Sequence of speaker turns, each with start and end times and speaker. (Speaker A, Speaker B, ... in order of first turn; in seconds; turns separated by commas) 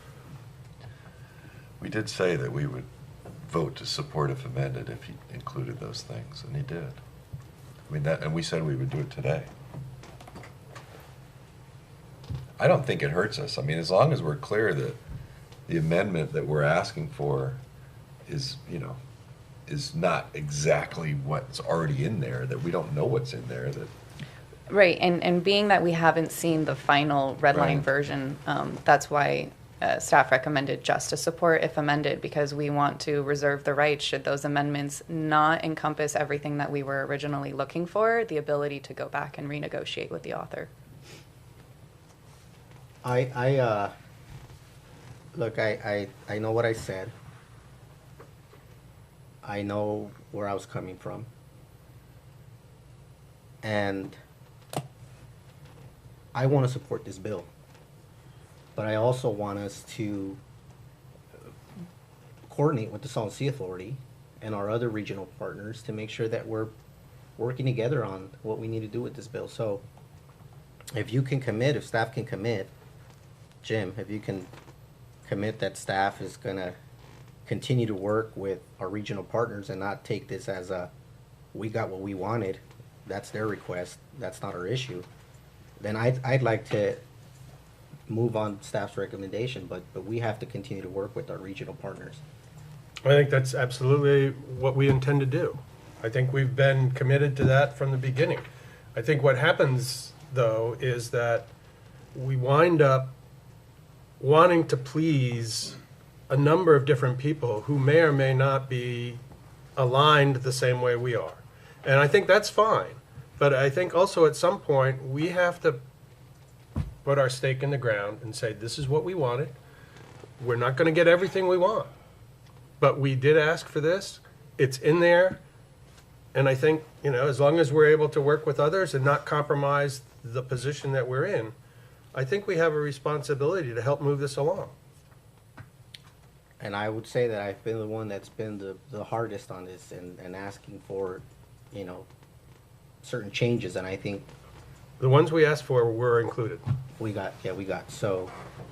Speaker A: 1.8-2.9, Speaker A: 3.4-7.0, Speaker A: 7.9-9.5, Speaker A: 12.6-15.0, Speaker A: 15.7-17.6, Speaker A: 18.3-19.0, Speaker A: 19.7-23.9, Speaker B: 24.7-40.7, Speaker A: 27.5-27.9, Speaker C: 43.0-43.9, Speaker C: 45.3-47.1, Speaker C: 49.4-51.3, Speaker C: 53.6-54.2, Speaker C: 56.3-57.5, Speaker C: 58.8-60.4, Speaker C: 62.5-66.7, Speaker C: 67.4-69.8, Speaker C: 70.9-72.7, Speaker C: 73.6-74.5, Speaker C: 75.2-76.8, Speaker C: 77.5-80.9, Speaker C: 81.5-85.1, Speaker C: 85.8-87.0, Speaker C: 88.1-92.2, Speaker D: 93.0-98.4, Speaker D: 98.9-101.5, Speaker D: 102.1-103.1, Speaker D: 104.2-105.8, Speaker D: 106.3-109.2, Speaker D: 109.8-115.8, Speaker D: 117.0-119.5, Speaker D: 120.4-121.9, Speaker D: 122.8-125.4, Speaker D: 126.3-131.5, Speaker D: 132.1-134.7, Speaker C: 136.6-142.1, Speaker C: 143.0-144.3, Speaker D: 145.0-146.6, Speaker C: 147.0-148.3